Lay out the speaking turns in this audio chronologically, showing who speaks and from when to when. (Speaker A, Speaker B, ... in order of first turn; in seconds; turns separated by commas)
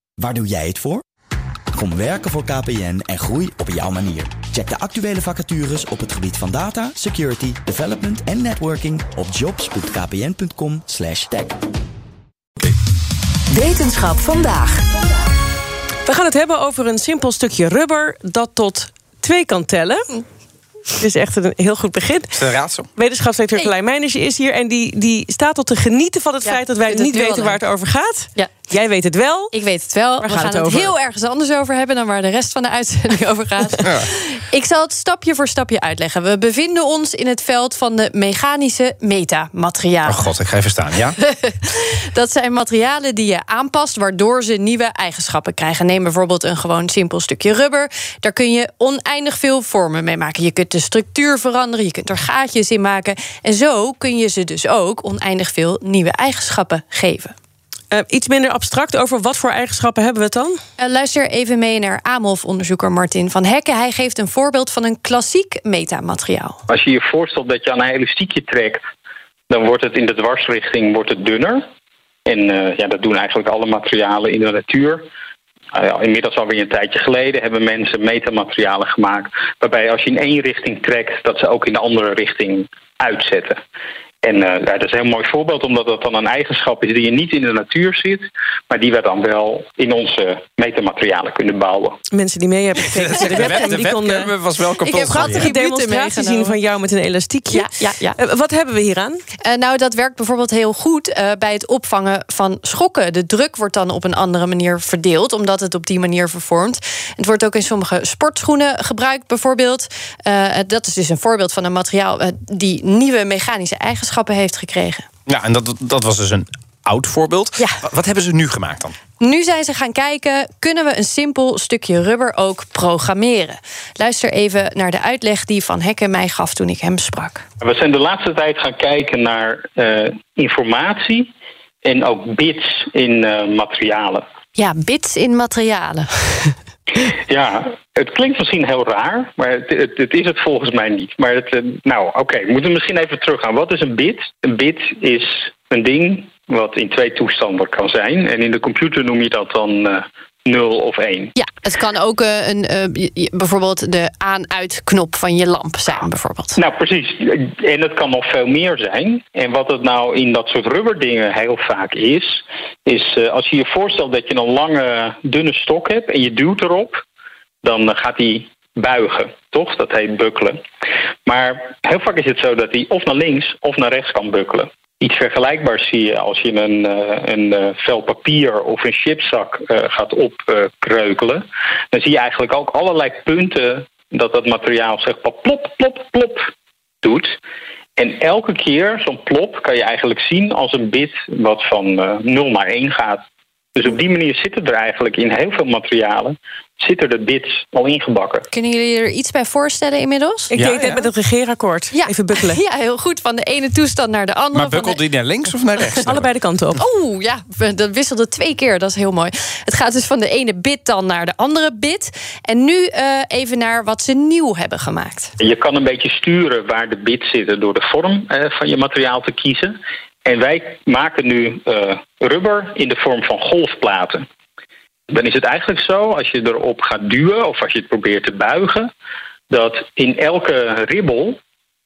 Speaker A: 0.2-1.0, Speaker A: 1.7-11.6, Speaker B: 16.1-20.2, Speaker B: 21.0-29.5, Speaker C: 22.3-22.9, Speaker D: 26.4-27.6, Speaker D: 29.5-40.3, Speaker B: 30.2-30.9, Speaker C: 40.0-41.2, Speaker D: 41.2-57.3, Speaker B: 57.9-60.6, Speaker D: 60.8-66.6, Speaker E: 66.7-68.8, Speaker E: 69.5-71.6, Speaker E: 72.2-75.1, Speaker E: 75.7-83.6, Speaker E: 84.2-92.0, Speaker B: 92.1-99.2, Speaker C: 92.8-95.5, Speaker D: 94.9-96.5, Speaker D: 97.5-98.2, Speaker D: 99.4-115.0, Speaker C: 115.3-118.9, Speaker D: 119.2-127.4, Speaker E: 127.6-131.3, Speaker E: 131.8-134.2, Speaker D: 134.5-136.6, Speaker E: 137.2-151.3, Speaker D: 151.3-156.6, Speaker E: 156.6-167.0, Speaker E: 167.6-170.6, Speaker E: 171.2-186.5, Speaker E: 187.0-187.4, Speaker E: 188.0-193.2, Speaker E: 193.7-198.4, Speaker D: 198.5-200.5, Speaker B: 200.5-202.6, Speaker C: 200.6-201.1, Speaker D: 201.9-205.0, Speaker C: 204.5-206.3, Speaker B: 206.0-206.8, Speaker D: 206.8-215.3, Speaker E: 215.4-224.2, Speaker E: 225.1-228.9, Speaker E: 229.5-231.4